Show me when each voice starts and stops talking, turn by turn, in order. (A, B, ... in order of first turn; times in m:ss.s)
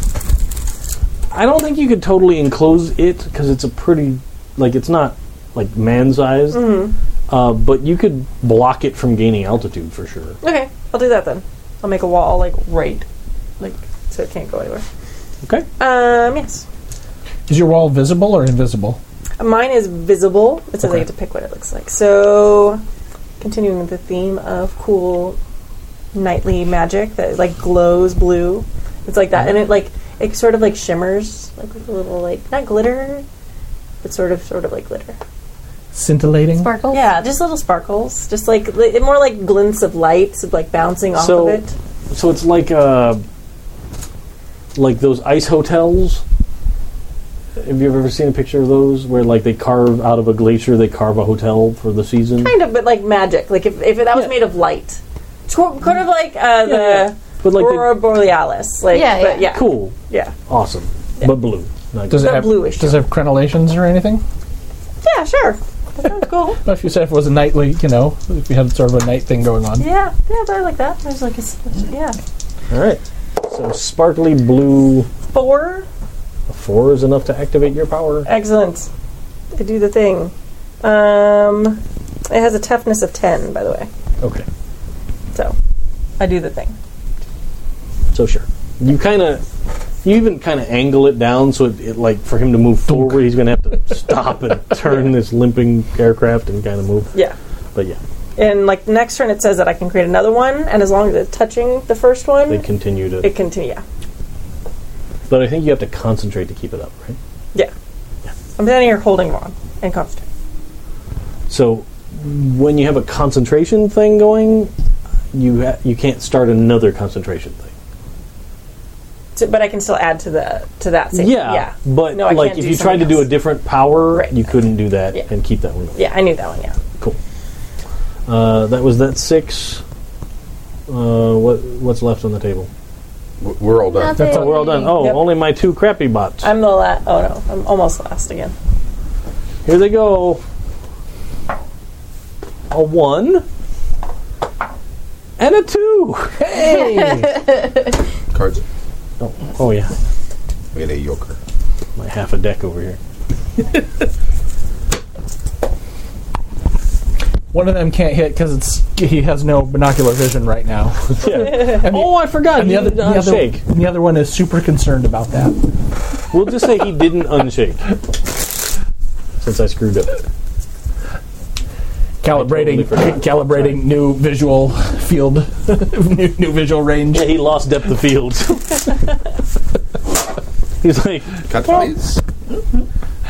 0:01.3-0:10.4 A
0:06.5-0:06.9 B
0:10.4-0:13.0 B
0:13.6-0:14.8 B
0:15.8-0:16.6 B
0:17.5-0:19.0 C
0:19.4-0:22.8 B
0:23.4-0:25.4 B
0:26.1-0:33.2 B
0:34.0-0:35.2 B
0:35.9-0:36.7 C
0:36.5-0:37.1 D
0:36.9-0:41.7 B
0:41.2-0:43.2 A
0:44.7-0:46.2 A
0:47.6-0:52.5 A
0:52.4-1:00.3 B
0:54.1-0:54.4 A
0:56.6-0:58.0 A
0:58.9-0:59.6 D
0:59.4-0:59.9 A
1:00.5-1:02.5 A
1:02.1-1:04.2 C
1:02.2-1:03.0 B
1:05.0-1:06.6 B
1:06.6-1:09.9 C
1:09.8-1:12.2 B
1:12.7-1:15.1 A
1:15.3-1:15.8 B
1:16.5-1:18.3 A
1:18.2-1:18.9 B
1:19.5-1:23.9 B
1:24.2-1:24.4 A
1:26.2-1:26.8 B
1:28.1-1:29.4 A
1:30.0-1:37.1 A
1:32.9-1:33.2 C
1:38.4-1:42.6 B
1:42.5-1:43.3 A
1:43.2-1:43.8 B
1:45.3-1:47.2 A
1:48.6-1:50.2 B
1:51.5-1:54.7 A
1:55.3-1:57.7 A
1:59.4-2:03.3 B
2:01.1-2:06.0 A
2:05.9-2:06.8 B
2:08.3-2:09.8 A
2:10.9-2:12.7 A
2:13.4-2:14.4 E
2:13.9-2:15.1 D
2:14.2-2:16.5 A
2:14.7-2:15.4 B
2:16.4-2:18.5 B
2:19.6-2:20.4 A
2:22.7-2:23.4 A
2:25.4-2:27.4 A
2:26.6-2:27.2 C
2:28.3-2:28.6 E
2:29.2-2:29.9 A
2:30.7-2:31.4 E
2:32.0-2:33.0 A
2:37.5-2:45.6 C
2:41.1-2:43.6 A
2:46.3-2:47.8 A
2:49.4-2:50.2 A
2:52.2-2:57.4 C
2:52.3-2:53.8 A
2:57.1-2:59.0 A
3:00.8-3:01.9 A
3:01.5-3:02.2 E